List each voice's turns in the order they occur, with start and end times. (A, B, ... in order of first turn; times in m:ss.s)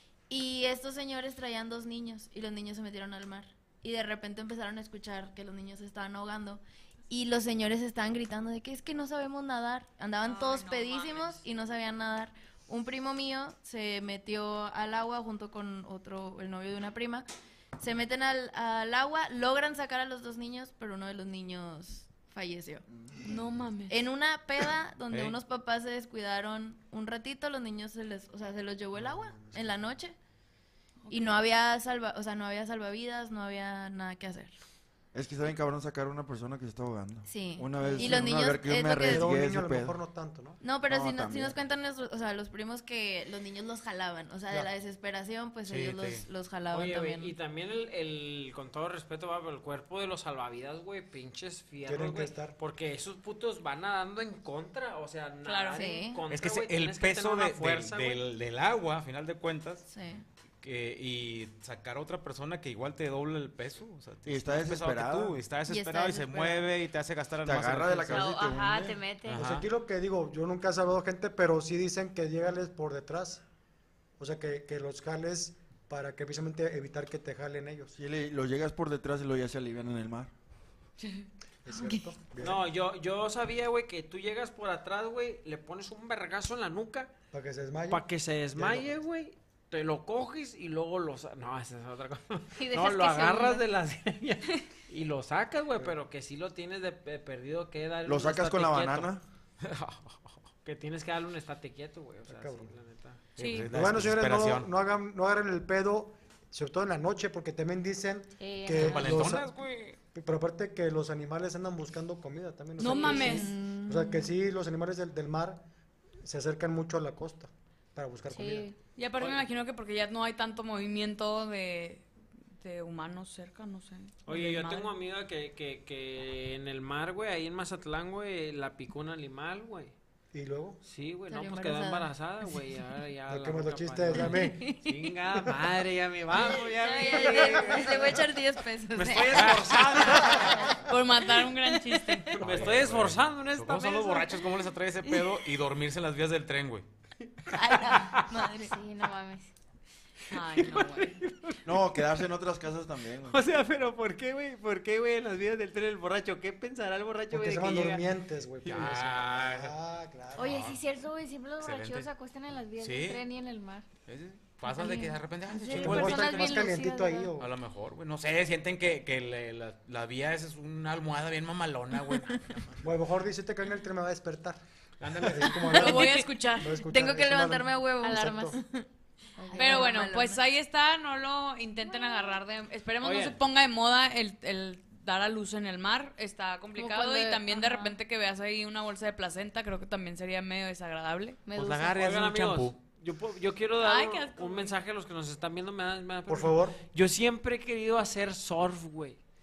0:00.3-0:17.3 A
0:10.2-0:11.4 B
0:17.8-0:22.8 A
0:22.9-0:23.2 C
0:23.2-0:23.9 B
0:23.9-0:30.2 A
0:25.1-0:25.4 D
0:29.0-0:29.8 E
0:31.1-0:31.4 B
0:31.1-0:34.6 A
0:35.1-0:40.0 C
0:37.3-0:39.3 A
0:37.9-0:38.4 E
0:39.0-0:40.6 E
0:40.6-0:47.3 A
0:40.9-0:41.6 C
0:45.7-0:46.2 D
0:46.7-0:58.2 F
0:51.8-0:52.6 E
0:55.4-0:55.9 B
0:55.8-0:56.2 A
0:56.3-0:59.8 D
0:59.9-1:00.2 A
1:00.6-1:08.3 D
1:04.2-1:05.4 C
1:05.7-1:06.7 A
1:07.4-1:09.0 C
1:08.1-1:09.5 G
1:09.3-1:09.7 D
1:09.3-1:13.4 E
1:14.2-1:17.9 E
1:18.0-1:20.3 C
1:21.6-1:22.7 E
1:22.4-1:27.1 F
1:27.3-1:28.0 E
1:27.9-1:39.1 F
1:28.6-1:29.0 E
1:32.6-1:33.6 G
1:38.1-1:39.2 C
1:39.6-1:43.2 F
1:42.3-1:42.7 E
1:43.4-1:44.7 D
1:43.4-1:43.7 B
1:43.7-1:49.5 E
1:48.4-1:49.3 G
1:48.7-1:50.0 D
1:50.1-1:55.6 E
1:52.8-1:53.5 B
1:52.9-1:54.2 A
1:56.2-1:58.7 E
1:58.3-1:58.8 G
1:59.0-2:02.1 B
2:02.6-2:04.9 B
2:04.3-2:09.9 F
2:10.3-2:10.8 E
2:10.8-2:18.2 F
2:11.3-2:12.1 A
2:13.3-2:14.7 E
2:16.3-2:20.8 A
2:17.2-2:17.8 G
2:19.0-2:20.6 F
2:19.0-2:20.5 D
2:20.8-2:22.3 B
2:22.3-2:24.4 F
2:22.4-2:26.8 D
2:27.5-2:28.8 A
2:28.6-2:29.5 G
2:30.3-2:31.2 B
2:30.3-2:32.0 F
2:31.6-2:33.4 C
2:33.3-2:38.0 F
2:37.3-2:40.7 E
2:38.7-2:39.7 D
2:40.4-2:43.9 G
2:40.4-2:40.8 D
2:41.6-2:42.1 D
2:42.8-2:43.2 D
2:44.1-2:46.6 D
2:44.7-2:47.3 G
2:45.7-2:47.5 E
2:47.4-2:52.8 D
2:52.8-2:54.6 E
2:55.0-2:55.7 D
2:55.2-2:58.6 E
2:55.7-2:56.8 B
2:56.8-2:58.5 A
2:58.0-2:58.8 G
2:59.4-3:00.1 G
2:59.5-3:00.4 A
2:59.6-3:11.4 B
3:01.9-3:02.4 G
3:03.0-3:03.4 F
3:06.8-3:08.0 G
3:11.5-3:12.0 G
3:11.6-3:12.8 D
3:12.0-3:19.2 F
3:13.8-3:14.8 B
3:16.3-3:16.8 E